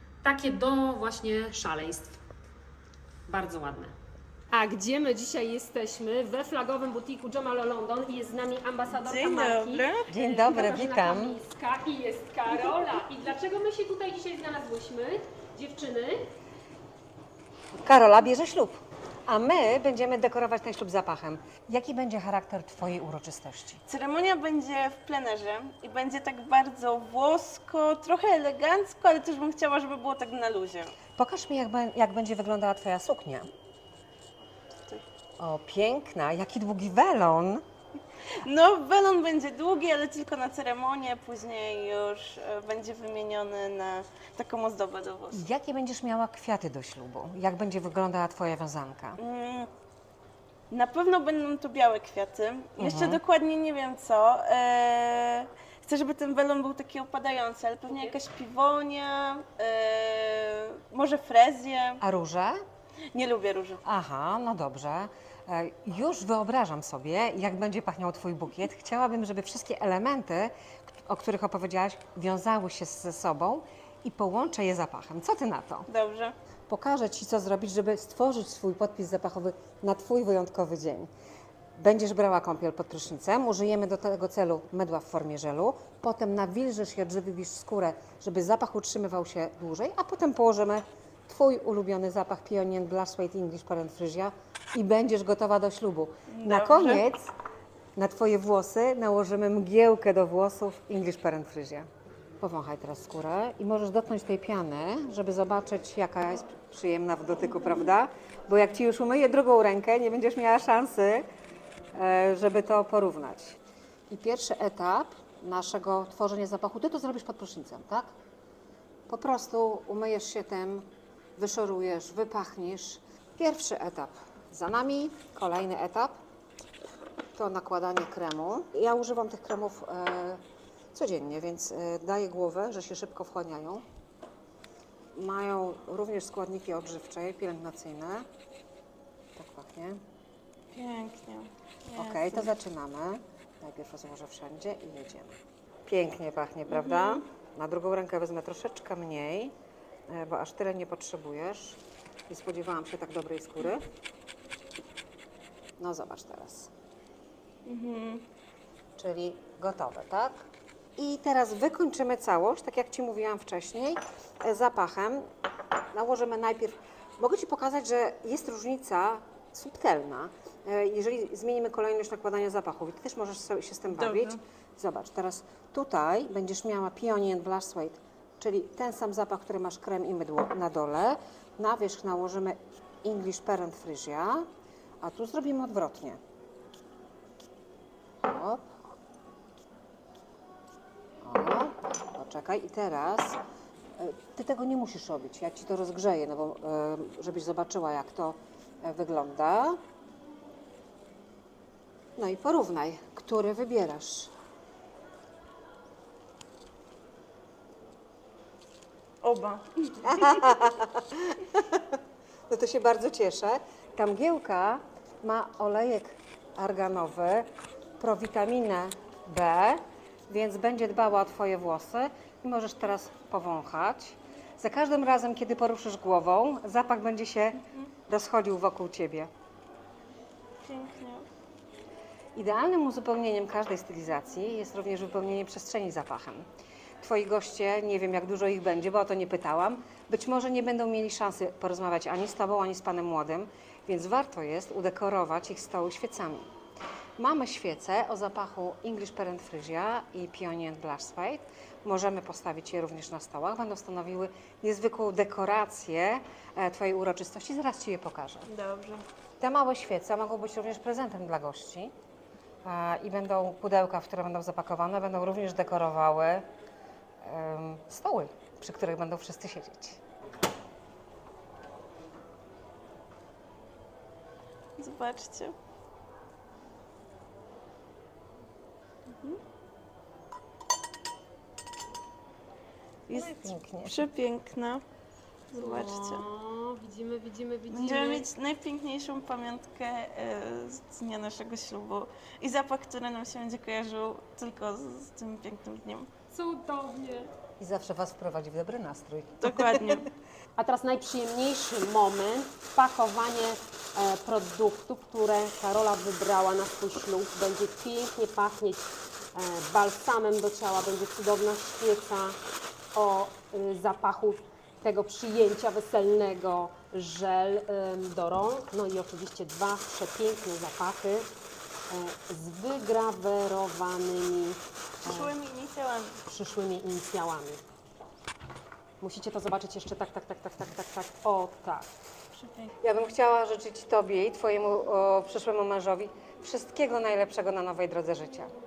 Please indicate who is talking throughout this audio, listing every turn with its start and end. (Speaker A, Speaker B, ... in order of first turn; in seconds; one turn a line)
Speaker A: 0.2-2.2
Speaker A: 3.3-3.9
Speaker A: 4.5-16.2
Speaker B: 8.9-10.1
Speaker C: 10.1-11.4
Speaker C: 17.8-23.8
Speaker B: 23.9-30.9
Speaker C: 31.1-33.5
Speaker C: 35.4-37.6
Speaker B: 38.4-45.4
Speaker C: 45.3-49.2
Speaker B: 49.2-49.7
Speaker B: 50.7-62.0
Speaker C: 52.8-53.2
Speaker C: 62.0-62.6
Speaker B: 63.1-63.8
Speaker C: 63.8-75.9
Speaker B: 75.9-76.3
Speaker C: 76.7-81.1
Speaker C: 81.8-97.3
Speaker B: 96.3-97.0
Speaker C: 98.0-101.9
Speaker C: 102.4-111.2
Speaker C: 111.9-113.6
Speaker C: 114.1-118.1
Speaker C: 119.1-126.2
Speaker C: 127.3-130.4
Speaker C: 130.9-133.8
Speaker C: 135.1-138.3
Speaker C: 139.3-140.0
Speaker B: 140.7-142.5
Speaker C: 141.9-149.5
Speaker B: 146.7-147.2
Speaker C: 150.1-151.8
Speaker C: 152.3-153.8
Speaker C: 155.8-156.7
Speaker B: 157.7-158.2
Speaker C: 159.0-160.4
Speaker C: 161.0-165.2
Speaker C: 165.9-184.5
Speaker B: 173.9-174.4
Speaker C: 185.0-186.2
Speaker C: 188.2-188.7
Speaker C: 191.2-193.4
Speaker C: 194.0-199.8
Speaker C: 202.2-204.3
Speaker B: 209.2-210.4
Speaker C: 210.0-212.0
Speaker C: 212.5-217.5
Speaker C: 218.0-229.3
Speaker B: 230.6-231.3
Speaker C: 232.3-236.4
Speaker C: 237.0-246.5
Speaker C: 247.2-258.5
Speaker B: 258.5-259.0
Speaker C: 259.4-261.9
Speaker C: 262.6-266.5
Speaker C: 267.2-270.0
Speaker B: 274.8-275.5
Speaker B: 279.1-279.4
Speaker C: 283.1-284.1
Speaker B: 283.8-284.8
Speaker B: 285.5-286.2
Speaker A: 285.6-288.2
Speaker B: 287.7-296.1
Speaker A: 296.3-297.3
Speaker C: 297.6-300.1
Speaker B: 299.4-300.1
Speaker A: 300.6-312.4
Speaker A: 312.9-321.3
Speaker A: 321.9-325.3
Speaker B: 325.0-326.2
Speaker A: 326.3-327.6
Speaker A: 329.0-331.9
Speaker B: 332.3-332.7
Speaker C: 332.8-338.5